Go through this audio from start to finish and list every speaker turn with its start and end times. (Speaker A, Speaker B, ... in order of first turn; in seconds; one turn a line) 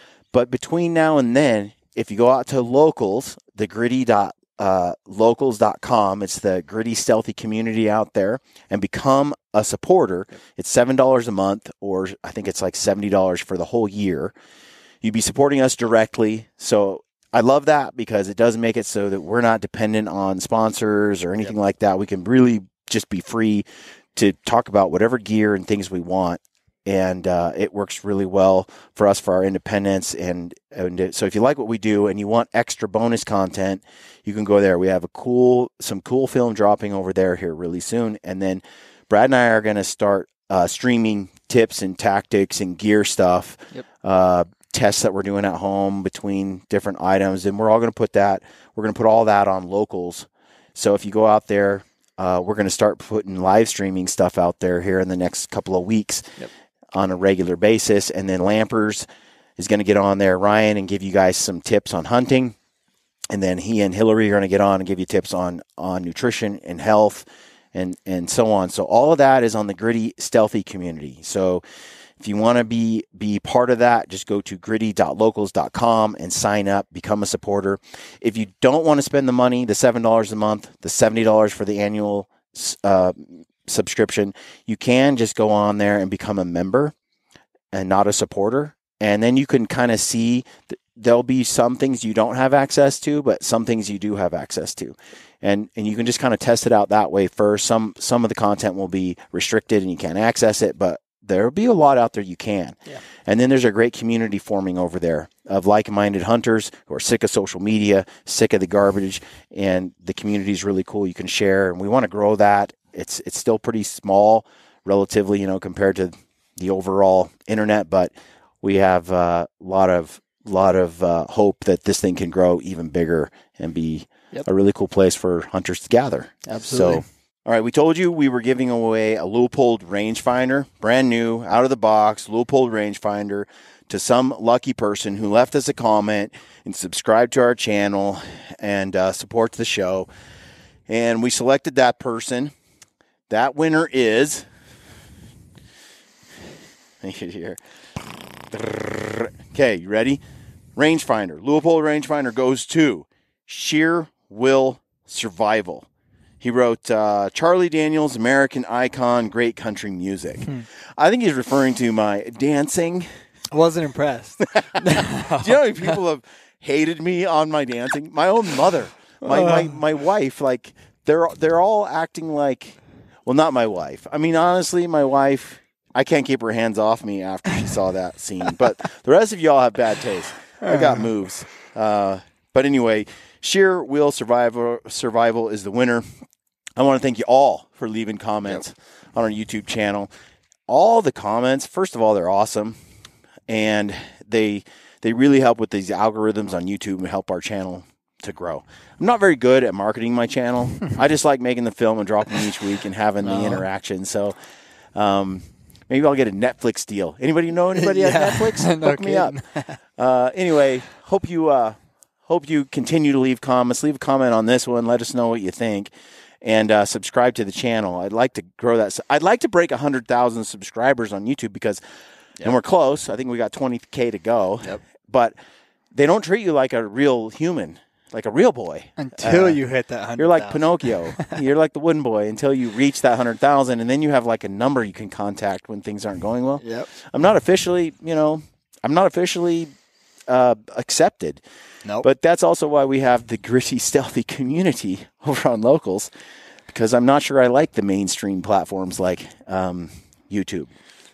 Speaker A: 0.3-14.3
Speaker A: 15.0-56.4
Speaker A: 56.9-62.5
Speaker A: 63.3-71.6
Speaker A: 72.2-86.9
Speaker A: 87.7-140.1
Speaker B: 126.5-127.0
Speaker A: 140.9-142.5
Speaker A: 143.3-144.4
Speaker A: 147.0-147.6
Speaker A: 148.5-150.2
Speaker A: 150.8-155.9
Speaker A: 156.4-163.1
Speaker B: 163.5-165.6
Speaker A: 164.4-186.1
Speaker B: 169.2-169.7
Speaker B: 180.6-181.1
Speaker A: 186.8-190.1
Speaker A: 190.7-192.8
Speaker A: 193.5-204.3
Speaker B: 203.2-203.6
Speaker A: 204.9-209.4
Speaker B: 207.7-209.8
Speaker A: 210.0-215.9
Speaker A: 216.4-221.8
Speaker A: 222.4-225.3
Speaker A: 225.9-229.6
Speaker B: 229.0-231.4
Speaker A: 230.2-239.7
Speaker B: 236.6-236.9
Speaker A: 240.3-241.4
Speaker A: 242.0-246.1
Speaker A: 246.7-250.7